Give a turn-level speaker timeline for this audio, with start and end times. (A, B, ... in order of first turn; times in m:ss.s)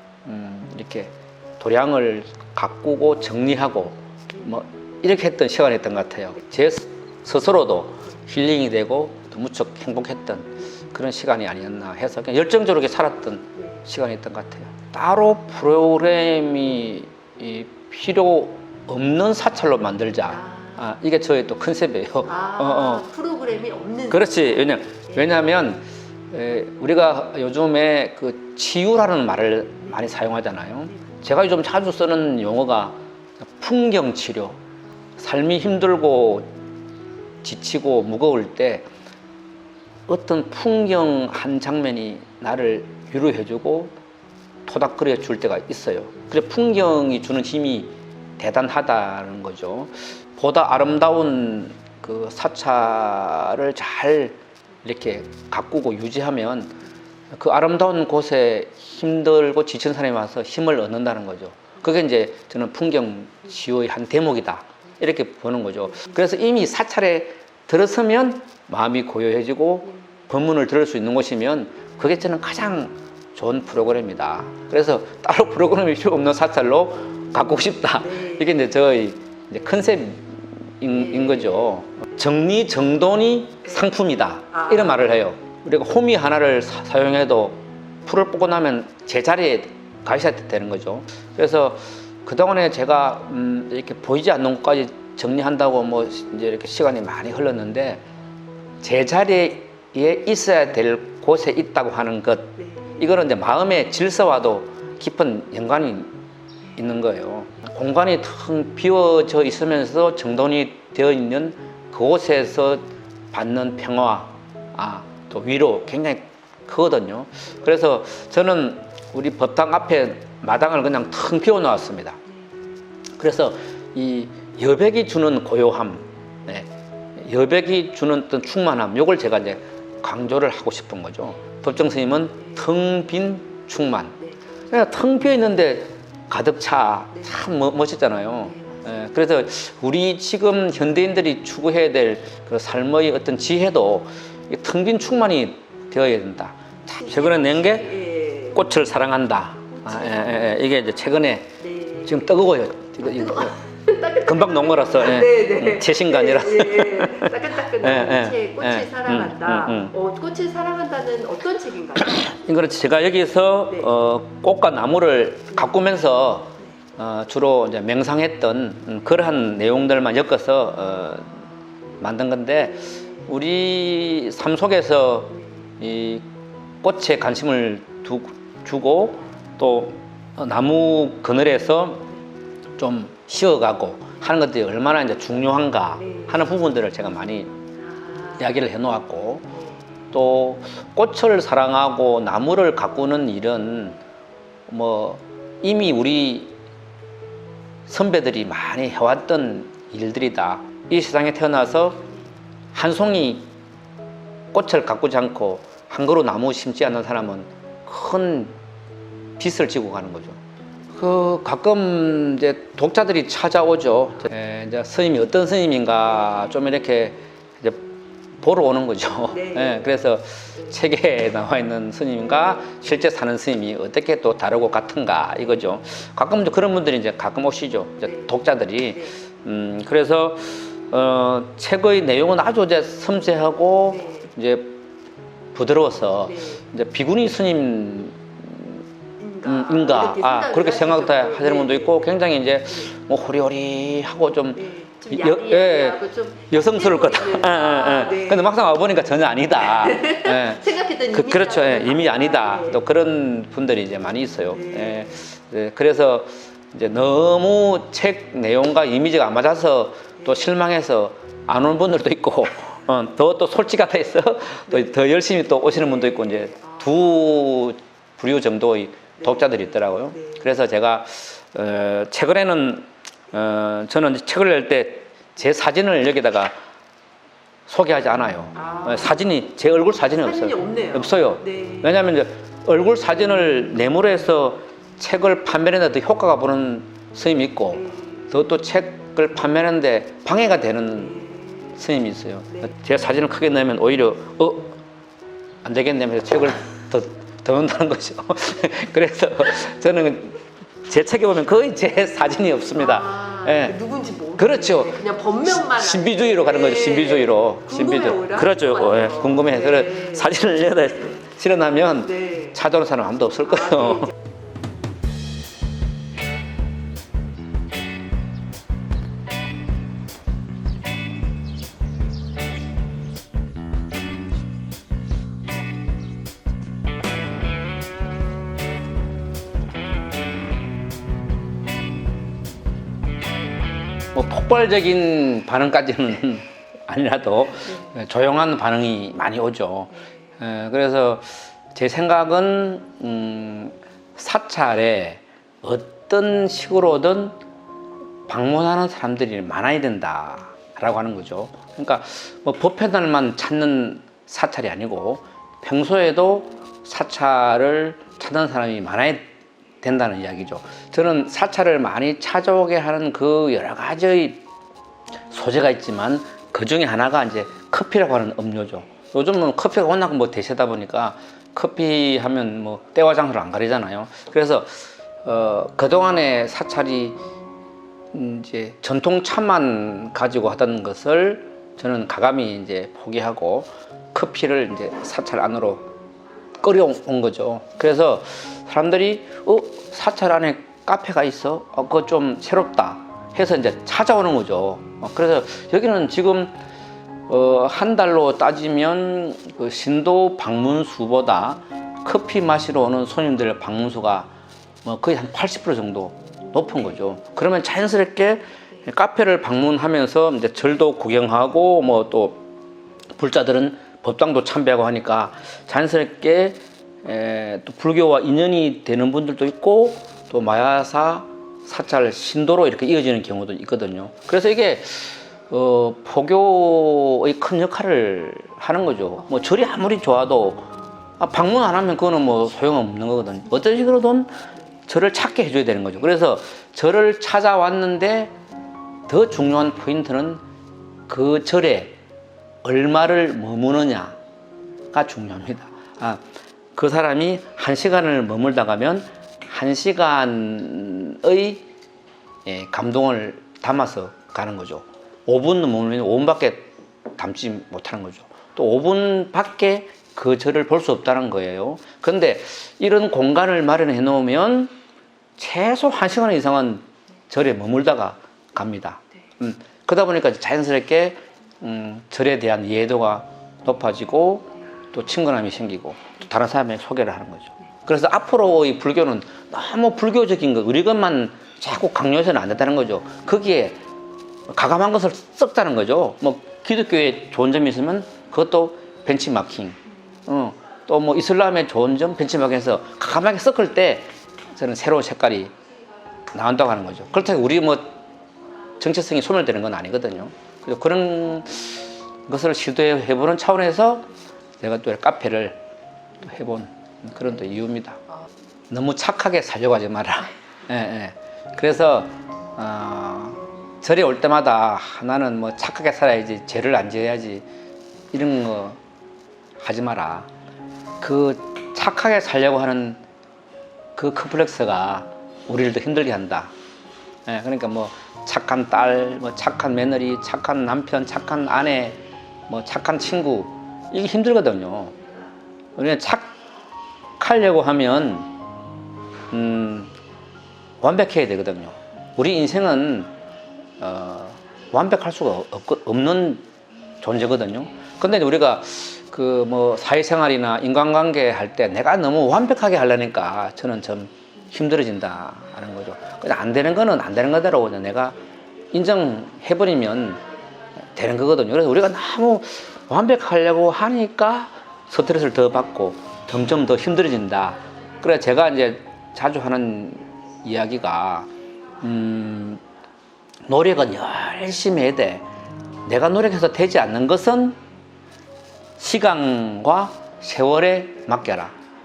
0:00.2-0:23.1 A
0:20.3-0:20.8 B
0:22.2-0:25.3 B
0:24.1-0:33.0 A
0:33.6-0:34.6 A
0:35.2-0:36.5 A
0:37.4-0:38.9 A
0:40.1-0:43.9 A
0:44.6-0:56.7 A
0:57.3-1:38.0 A
1:18.0-1:18.4 B
1:24.5-1:24.9 B
1:38.8-1:46.1 A
1:46.8-2:02.2 A
2:03.2-2:14.2 A
2:14.7-2:33.6 A
2:26.9-2:28.6 B
2:29.9-2:30.4 B
2:31.6-2:32.2 B
2:33.1-2:42.3 B
2:34.1-2:39.9 A
2:42.1-2:51.4 A
2:52.0-2:56.2 A
2:56.8-3:02.1 A
3:02.8-3:07.6 A
3:06.0-3:06.3 B
3:07.9-3:08.4 B
3:08.4-3:09.6 A
3:10.1-3:14.0 A
3:14.7-3:16.5 A
3:17.9-3:22.0 A
3:22.7-3:23.5 A
3:24.5-3:28.6 A
3:29.4-3:30.4 A
3:30.9-3:37.8 A
3:38.4-3:54.7 A
3:39.3-3:39.8 B
3:54.0-3:54.2 B
3:55.5-3:58.8 A
3:59.2-4:02.1 B
3:59.4-4:36.5 A
4:04.6-4:08.7 B
4:09.6-4:12.8 B
4:14.5-4:15.2 B
4:25.7-4:26.8 B
4:29.2-4:29.5 B
4:30.1-4:30.4 B
4:37.7-4:51.2 A
4:38.6-4:39.1 B
4:40.1-4:41.9 B
4:47.8-4:48.2 B
4:51.1-4:51.5 B
4:51.7-4:54.8 A
4:55.6-5:03.8 A
5:02.8-5:10.3 B
5:04.4-5:14.1 A
5:12.1-5:12.5 B
5:13.7-5:14.0 B
5:34.1-5:47.4 A
5:48.3-5:59.2 A
5:59.8-6:04.4 A
6:05.3-6:17.2 A
6:18.1-6:25.9 A
6:26.6-6:36.6 A
6:37.3-6:44.3 A
6:44.8-6:52.4 A
6:53.1-7:18.3 A
7:19.1-7:20.4 A
7:21.1-7:21.9 A
7:22.6-7:24.2 A
7:24.9-7:26.2 A
7:26.7-7:31.6 A
7:32.4-7:44.7 A
7:45.4-8:03.8 A
8:04.5-8:15.5 A
8:16.3-8:18.0 A
8:18.8-8:24.1 A
8:24.6-8:25.6 A
8:26.2-8:28.0 A
8:28.7-8:37.4 A
8:38.1-8:38.8 A
8:39.6-8:40.3 A
8:41.0-8:43.0 A
8:43.9-8:46.5 A
8:47.2-8:54.9 A
8:55.8-8:56.4 A
8:57.2-8:58.3 A
8:59.3-8:59.9 A
9:00.8-9:03.1 A
9:03.8-9:06.4 A
9:07.0-9:18.2 A
9:18.7-9:20.2 A
9:20.8-9:31.3 A
9:31.8-9:32.6 A
9:33.5-9:35.2 A
9:35.8-9:37.6 A
9:38.8-9:41.5 A